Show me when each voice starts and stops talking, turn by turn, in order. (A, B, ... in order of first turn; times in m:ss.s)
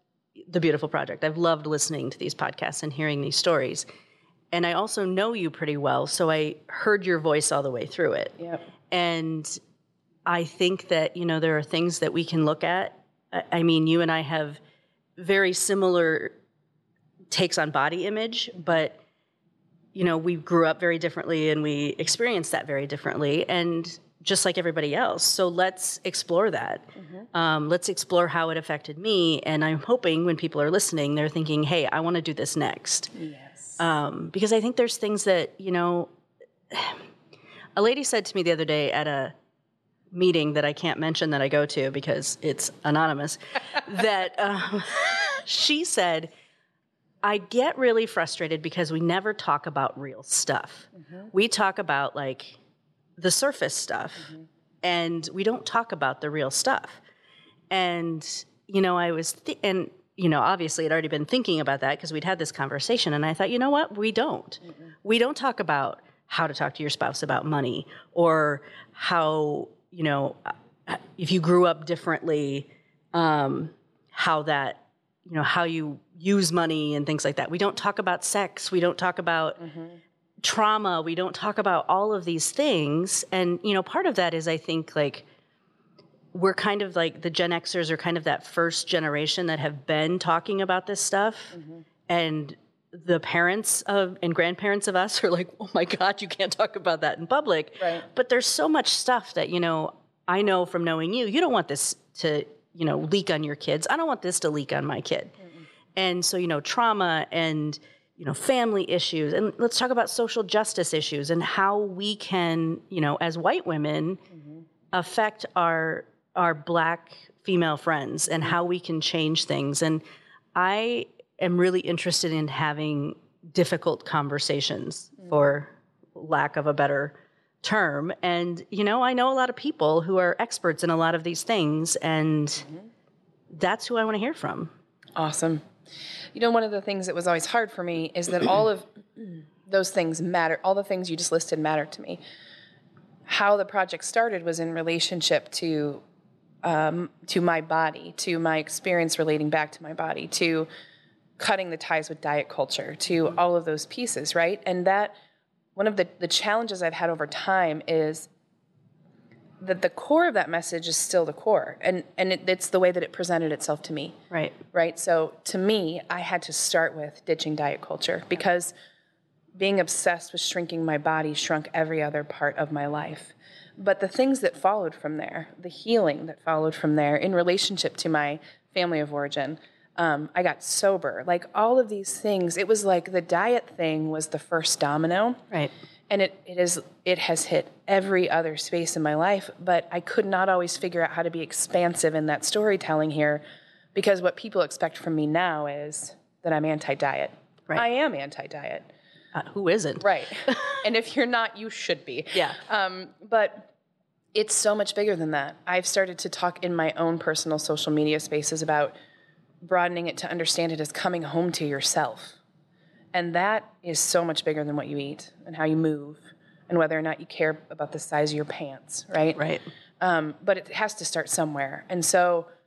0:00.5-0:03.9 A
0:04.5-0:08.4 A
0:08.4-0:08.6 B
0:08.9-0:09.6 A
0:10.3-0:14.6 A
0:15.2-0:16.4 A
0:17.3-0:19.0 A
0:20.0-0:33.1 A
0:27.0-0:27.3 B
0:33.2-0:33.8 B
0:33.8-0:36.1 A
0:36.7-0:37.0 A
0:37.8-0:39.3 A
0:40.1-0:46.3 A
0:47.2-0:52.6 A
0:53.2-0:57.0 A
0:57.7-1:19.6 A
1:19.7-1:19.9 B
1:20.4-1:25.2 A
1:26.3-1:45.4 A
1:31.5-1:31.8 B
1:37.8-1:38.0 B
1:46.0-1:54.2 A
1:54.3-1:54.6 B
1:54.9-2:00.0 A
2:00.6-2:12.7 A
2:13.5-2:14.7 A
2:15.2-2:15.6 B
2:16.3-2:22.2 B
2:23.3-2:26.0 B
2:26.6-2:30.7 B
2:31.4-2:35.1 B
2:35.8-2:38.3 B
2:39.6-2:44.2 B
2:44.3-2:44.6 A
2:44.7-2:48.7 B
2:49.6-3:05.4 B
3:06.1-3:13.4 B
3:14.0-3:18.9 B
3:19.4-3:20.8 A
3:20.0-3:23.7 B
3:24.3-3:28.9 B
3:29.6-3:32.4 B
3:33.1-3:39.4 B
3:39.4-3:39.6 A
3:40.0-3:42.5 B